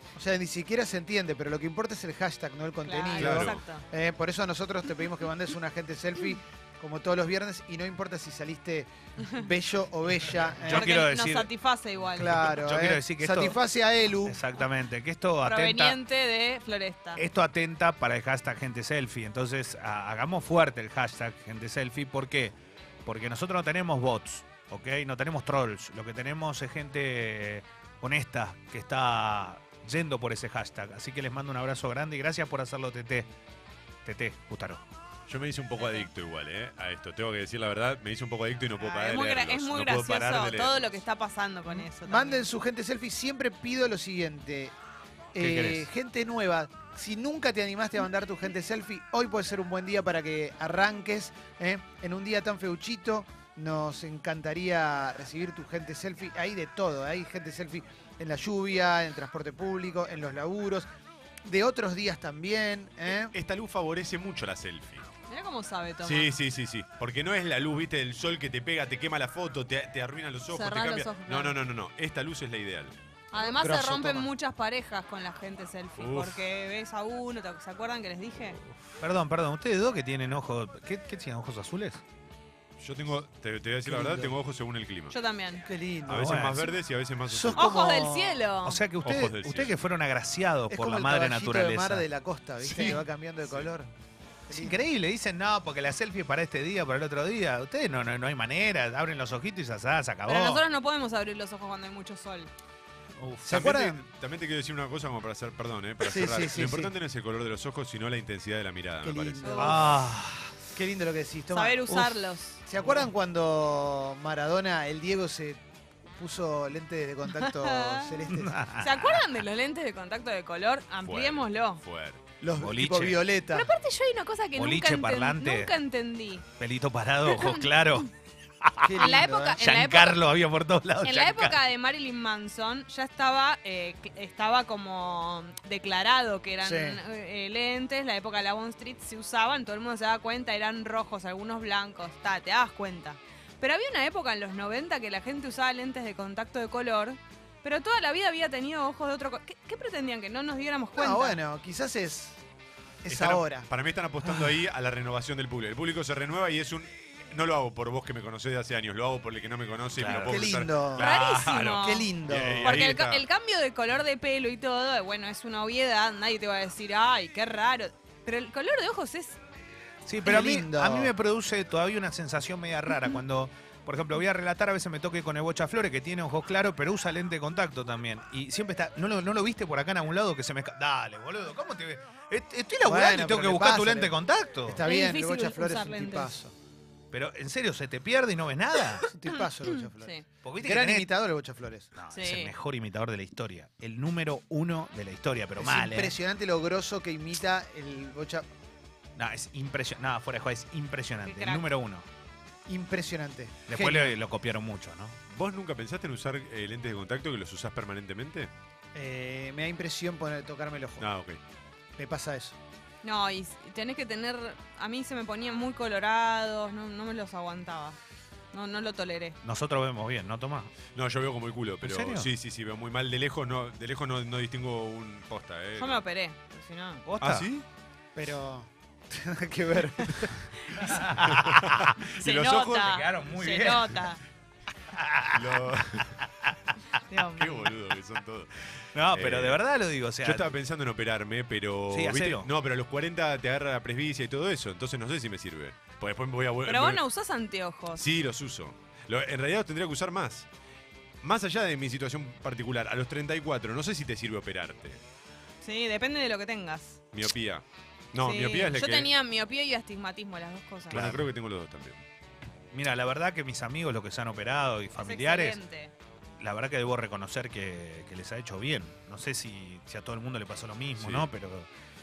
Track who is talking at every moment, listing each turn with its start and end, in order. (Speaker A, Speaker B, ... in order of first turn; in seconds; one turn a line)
Speaker A: 0.1-10.9
Speaker B: 2.8-3.8
Speaker C: 3.2-3.6
Speaker D: 10.6-11.5
Speaker B: 10.7-12.6
Speaker A: 12.1-14.4
Speaker D: 12.3-13.6
Speaker D: 14.2-16.0
Speaker B: 15.4-17.2
Speaker D: 17.1-33.3
Speaker D: 34.0-34.8
Speaker C: 35.3-40.8
Speaker B: 35.8-36.0
Speaker B: 38.8-42.4
Speaker A: 41.7-44.7
Speaker A: 45.3-60.9
Speaker D: 45.4-45.9
Speaker A: 61.4-63.4
Speaker C: 63.1-65.0
Speaker B: 65.3-66.3
Speaker C: 66.0-72.9
Speaker B: 70.5-71.6
Speaker B: 73.3-78.6
Speaker A: 73.3-74.3
Speaker C: 76.0-76.4
Speaker D: 79.0-82.0
Speaker C: 82.8-85.1
Speaker A: 83.9-84.3
Speaker B: 85.1-85.7
Speaker A: 85.7-86.7
Speaker C: 86.0-87.8
Speaker D: 86.1-86.7
Speaker A: 87.3-88.5
Speaker B: 87.5-88.8
Speaker D: 88.6-92.0
Speaker C: 89.0-89.8
Speaker A: 90.7-93.9
Speaker D: 92.6-93.0
Speaker A: 94.5-94.8
Speaker D: 94.5-100.6
Speaker B: 100.2-102.5
Speaker D: 103.2-103.6
Speaker A: 103.4-104.0
Speaker C: 103.5-109.8
Speaker A: 106.0-106.9
Speaker A: 109.0-110.0
Speaker B: 109.4-109.9
Speaker D: 109.6-110.5
Speaker A: 110.7-112.1
Speaker B: 111.5-112.6
Speaker A: 112.7-115.6
Speaker A: 116.1-118.5
Speaker B: 117.3-121.8
Speaker D: 118.3-119.2
Speaker C: 121.0-122.2
Speaker A: 122.4-123.7
Speaker D: 122.6-123.3
Speaker B: 123.5-126.4
Speaker D: 124.5-125.8
Speaker D: 126.6-128.1
Speaker B: 127.2-128.0
Speaker D: 128.6-131.7
Speaker A: 128.8-129.6
Speaker B: 129.0-130.2
Speaker B: 131.0-151.4
Speaker A: 136.6-137.0
Speaker A: 150.9-152.4
Speaker A: 153.0-153.7
Speaker C: 153.1-163.2
Speaker D: 160.0-160.5
Speaker A: 160.3-161.1
Speaker B: 161.0-162.1
Speaker A: 161.8-162.8
Speaker B: 162.6-169.4
Speaker D: 170.0-184.8
Speaker A: 170.2-171.1
Speaker A: 182.8-184.1
Speaker A: 184.7-186.5
Speaker B: 184.8-186.3
Speaker D: 187.1-189.1
Speaker A: 189.1-191.9
Speaker B: 190.0-190.2
Speaker D: 190.4-191.1
Speaker D: 191.9-196.1
Speaker B: 192.1-192.5
Speaker A: 195.6-198.4
Speaker D: 199.2-202.1
Speaker B: 201.2-201.7
Speaker A: 202.7-204.2
Speaker D: 203.7-205.2
Speaker C: 205.3-208.5
Speaker A: 208.9-211.1
Speaker C: 211.0-211.4
Speaker A: 212.0-212.6
Speaker B: 213.0-218.0
Speaker B: 218.5-219.4
Speaker D: 219.4-220.7
Speaker C: 220.9-226.0
Speaker D: 221.8-222.3
Speaker B: 225.8-227.0
Speaker D: 227.0-227.5
Speaker C: 227.2-227.6
Speaker A: 228.2-230.7
Speaker D: 230.8-231.9
Speaker C: 231.2-232.9
Speaker B: 232.0-234.2
Speaker D: 232.8-234.1
Speaker D: 234.9-235.6
Speaker C: 235.3-236.3
Speaker D: 236.4-236.7
Speaker B: 237.1-237.7
Speaker C: 237.2-239.6
Speaker D: 238.9-240.5
Speaker C: 240.2-247.0
Speaker D: 241.9-242.5
Speaker B: 246.6-248.0
Speaker C: 247.9-250.5
Speaker C: 251.2-255.0
Speaker B: 255.6-257.0
Speaker C: 257.1-259.1
Speaker B: 258.2-261.0
Speaker D: 260.9-261.3
Speaker C: 260.9-262.0
Speaker D: 262.7-265.6
Speaker B: 265.0-265.9
Speaker D: 266.4-271.7
Speaker C: 270.9-271.3